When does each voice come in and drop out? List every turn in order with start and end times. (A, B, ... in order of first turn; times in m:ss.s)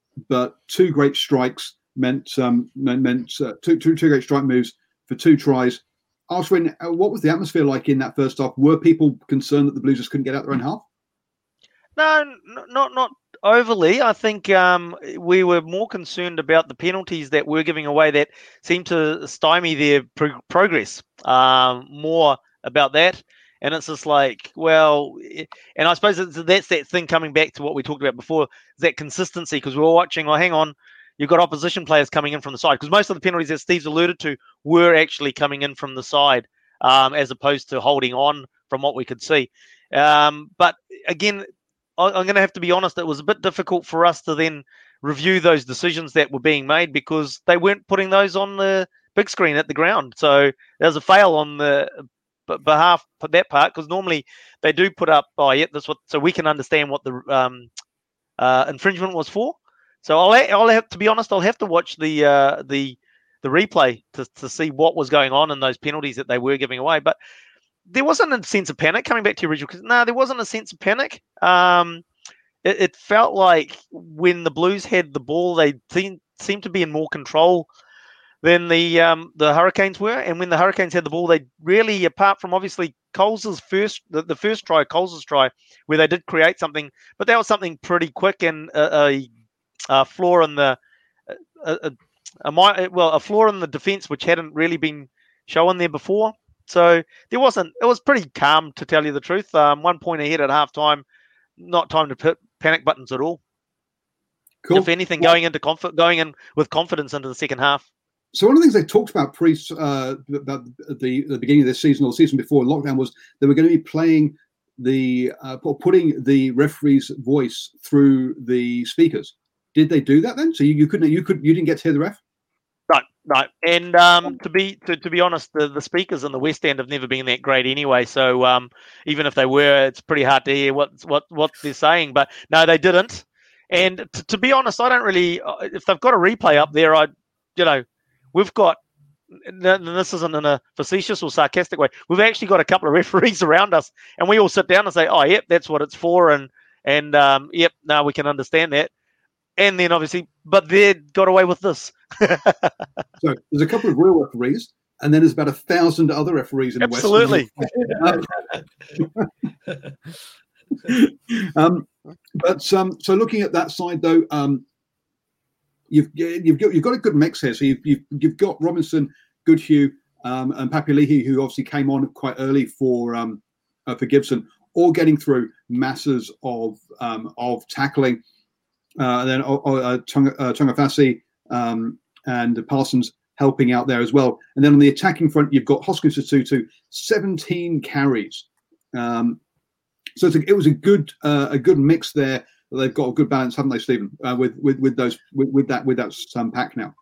0:00.3-0:10.8 A
0:12.0-0:41.4 B
0:42.0-0:51.9 B
0:52.5-0:57.7 B
0:58.4-1:07.2 B
1:07.9-1:12.0 B
1:12.6-1:17.7 B
1:18.4-1:29.3 B
1:29.9-1:30.8 B
1:31.6-1:41.0 B
1:41.6-1:43.4 B
1:44.6-1:45.4 A
1:44.7-1:47.8 B
1:48.3-2:02.2 A
2:02.9-2:18.8 B
2:19.4-2:28.9 B
2:29.6-2:32.8 B
2:33.2-2:38.4 A
2:36.8-2:37.5 B
2:39.0-2:39.3 A
2:40.8-2:44.6 A
2:45.9-2:58.2 A
2:59.0-3:09.4 A
3:10.2-3:16.9 A